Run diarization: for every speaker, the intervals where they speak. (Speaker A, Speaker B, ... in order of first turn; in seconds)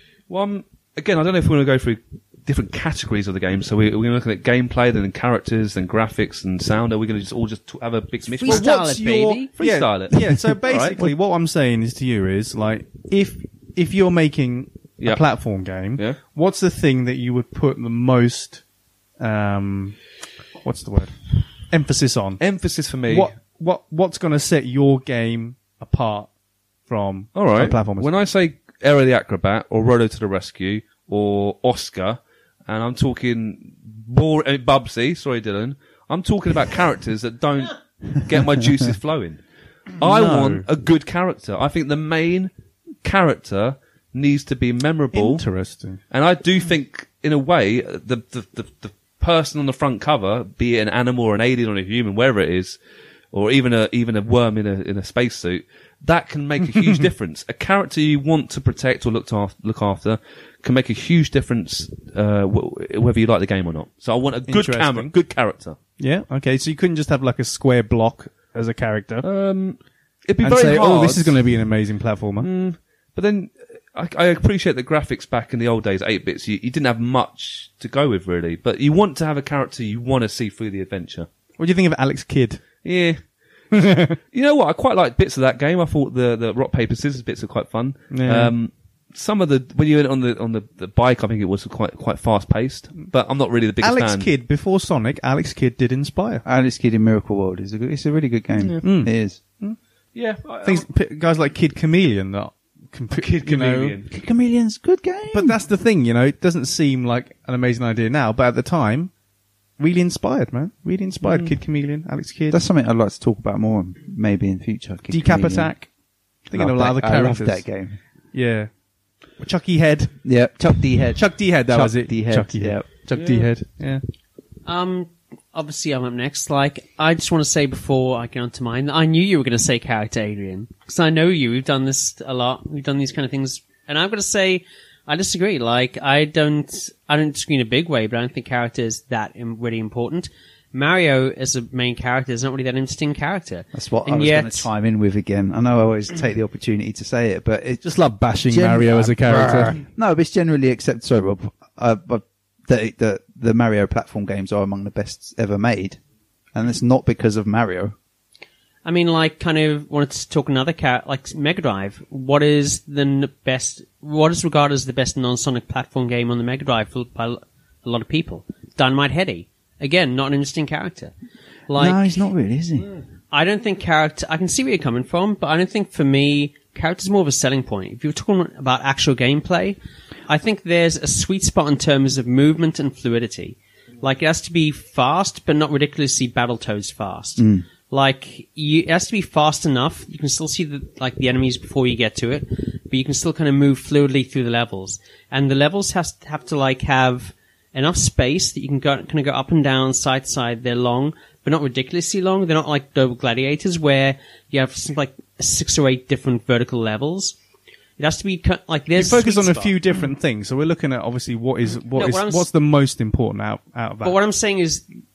Speaker A: 0.3-8.7, 9.6-11.0, 22.4-23.3, 27.3-42.5, 43.0-45.4, 46.1-52.8, 53.3-65.8, 69.2-71.4, 72.4-81.3, 82.8-83.2, 84.3-94.3, 98.6-98.8, 100.1-100.8, 103.1-104.1, 111.2-111.5, 123.1-123.5
Speaker B: 8.3-9.5, 124.7-144.7, 158.8-171.1, 171.7-172.2, 173.3-207.3, 208.0-209.8, 211.9-212.5, 214.0-214.8
Speaker C: 8.4-18.6, 19.2-20.0, 20.6-22.4, 23.1-26.3, 26.9-28.1, 40.0-40.6, 45.1-46.0, 64.5-65.1, 66.0-69.2, 70.4-72.5, 81.6-82.6, 83.7-84.2, 88.1-88.5, 93.8-96.4, 98.8-99.8, 100.6-104.0, 105.3-109.1, 109.8-112.6, 115.1-115.9, 116.5-117.6, 118.3-118.7, 119.4-120.2, 121.2-124.0, 147.8-149.8, 208.9-214.2
Speaker D: 96.4-99.4, 104.1-105.5, 112.5-115.7, 116.5-118.0, 120.2-122.8, 143.7-147.8, 148.5-156.0, 156.5-157.9, 171.8-172.9, 187.4-187.6